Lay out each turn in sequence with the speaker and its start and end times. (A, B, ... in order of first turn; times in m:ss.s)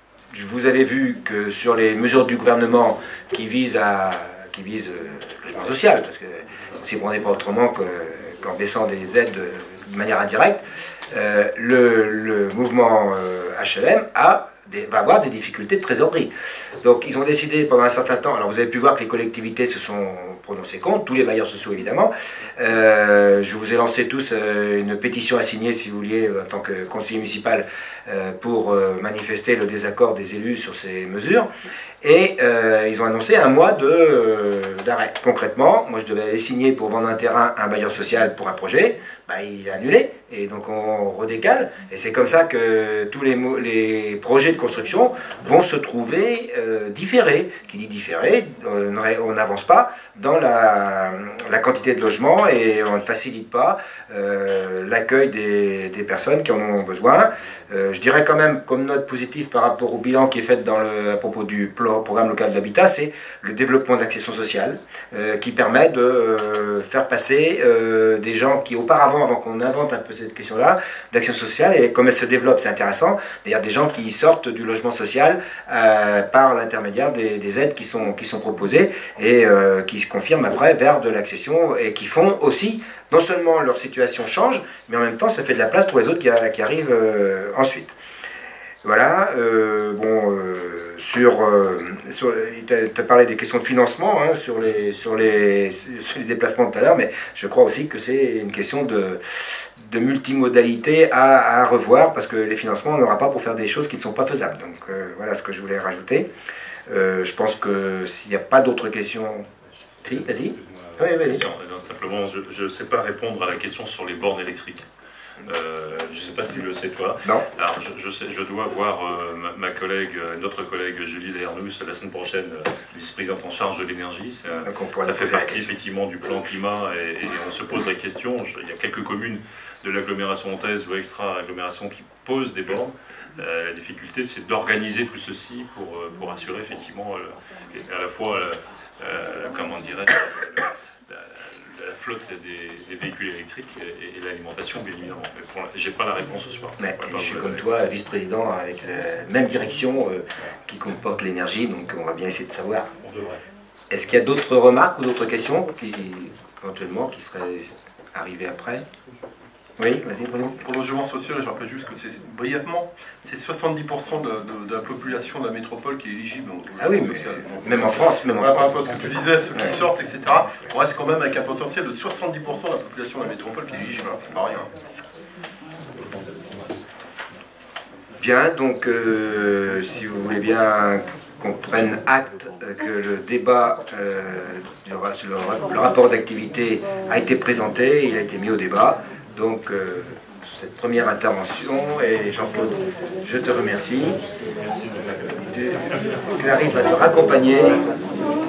0:00.3-0:31.5 A
0:32.0-1:27.9 A
1:28.8-1:46.3 A
1:46.9-1:49.5 A
1:49.7-1:54.9 B
1:50.0-1:51.4 A
1:55.4-2:27.7 B
2:04.6-2:05.7 A
2:26.8-2:32.9 A
2:33.0-2:33.4 B
2:33.9-2:38.9 A
2:39.8-2:40.7 A
2:40.4-2:54.7 C
2:46.8-2:49.8 A
2:58.2-3:14.2 A
3:14.6-3:16.7 B
3:15.5-3:15.8 A
3:16.4-3:17.8 A